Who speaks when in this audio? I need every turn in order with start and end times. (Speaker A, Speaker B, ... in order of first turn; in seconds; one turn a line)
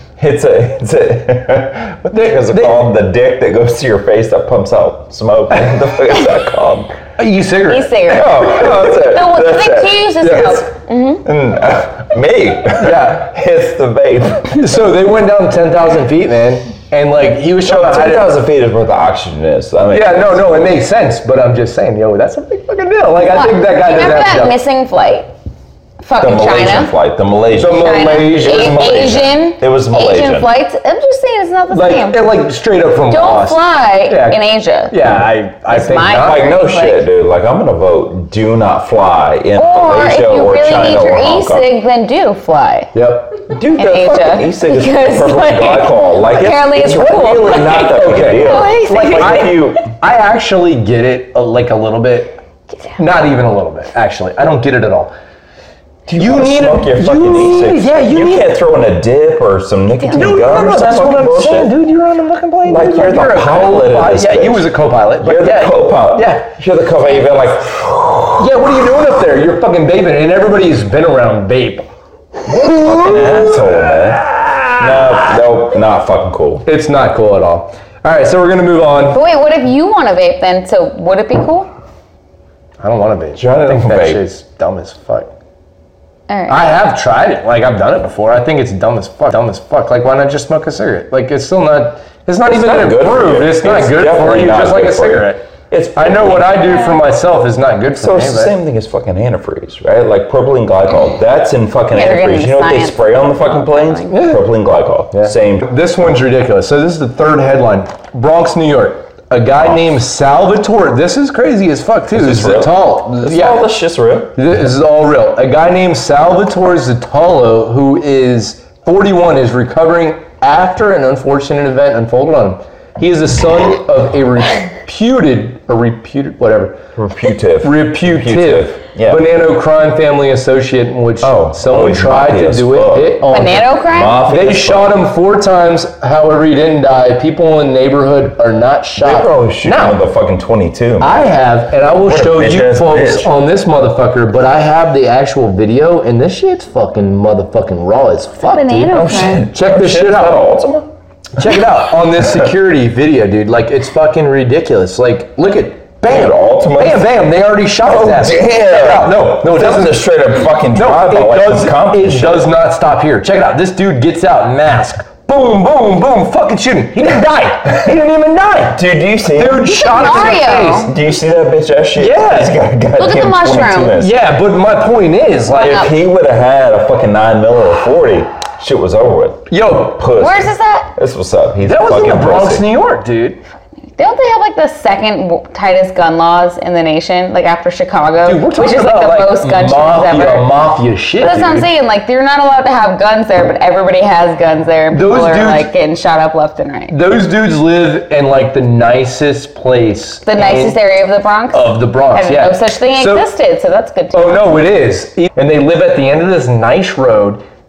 Speaker A: 0.2-6.9
Speaker B: 2.1-2.9
Speaker B: 7.2-9.0
Speaker C: 7.7-11.2
Speaker A: 8.1-10.6
Speaker B: 10.2-10.6
Speaker A: 11.2-14.7
Speaker B: 12.8-13.3
Speaker B: 14.5-18.4
Speaker A: 17.6-20.5
Speaker B: 19.9-24.6
Speaker C: 23.2-25.3
Speaker C: 26.0-26.9
Speaker A: 26.2-30.5
Speaker B: 27.6-29.1
Speaker C: 27.7-32.2
Speaker B: 31.7-36.5
Speaker C: 33.1-35.0
Speaker C: 35.7-37.0
Speaker A: 36.1-41.7
Speaker C: 39.6-42.9
Speaker B: 42.9-43.4
Speaker A: 43.5-49.9
Speaker C: 43.7-49.4
Speaker B: 47.1-52.4
Speaker B: 53.0-55.1
Speaker B: 56.1-58.6
Speaker A: 56.1-61.7
Speaker C: 60.1-60.4
Speaker B: 60.1-66.5
Speaker A: 62.6-64.7
Speaker A: 65.2-68.5
Speaker B: 68.4-71.9
Speaker B: 72.5-75.4
Speaker A: 72.5-74.2
Speaker A: 74.8-76.7
Speaker B: 76.7-79.2
Speaker C: 79.1-81.7
Speaker B: 82.8-85.3
Speaker A: 83.4-84.2
Speaker C: 86.3-86.7
Speaker B: 86.5-98.5
Speaker A: 92.5-96.6
Speaker A: 98.0-105.7
Speaker C: 101.9-104.2
Speaker B: 104.1-104.4
Speaker B: 105.1-113.7
Speaker A: 112.1-114.4
Speaker B: 114.3-126.8
Speaker A: 127.0-129.2
Speaker B: 127.6-133.7
Speaker A: 131.2-135.0
Speaker C: 133.3-134.2
Speaker B: 134.2-140.0
Speaker A: 139.0-141.3
Speaker B: 141.0-150.5
Speaker A: 142.0-143.3
Speaker C: 148.4-149.5
Speaker A: 148.9-150.9
Speaker B: 151.4-160.1
Speaker A: 156.1-157.1
Speaker A: 157.8-162.5
Speaker B: 160.7-168.8
Speaker A: 168.7-174.2
Speaker B: 169.3-170.9
Speaker C: 169.7-170.9
Speaker B: 172.0-172.6
Speaker C: 173.0-174.0
Speaker B: 174.0-175.8
Speaker C: 175.5-175.9
Speaker A: 175.5-182.7
Speaker B: 179.5-180.1
Speaker C: 180.2-180.9
Speaker B: 181.6-183.4
Speaker C: 184.0-190.5
Speaker B: 188.2-191.7
Speaker C: 191.2-196.9
Speaker B: 194.9-195.7
Speaker B: 196.9-200.8
Speaker C: 200.3-204.5
Speaker B: 201.5-203.3
Speaker B: 204.1-207.4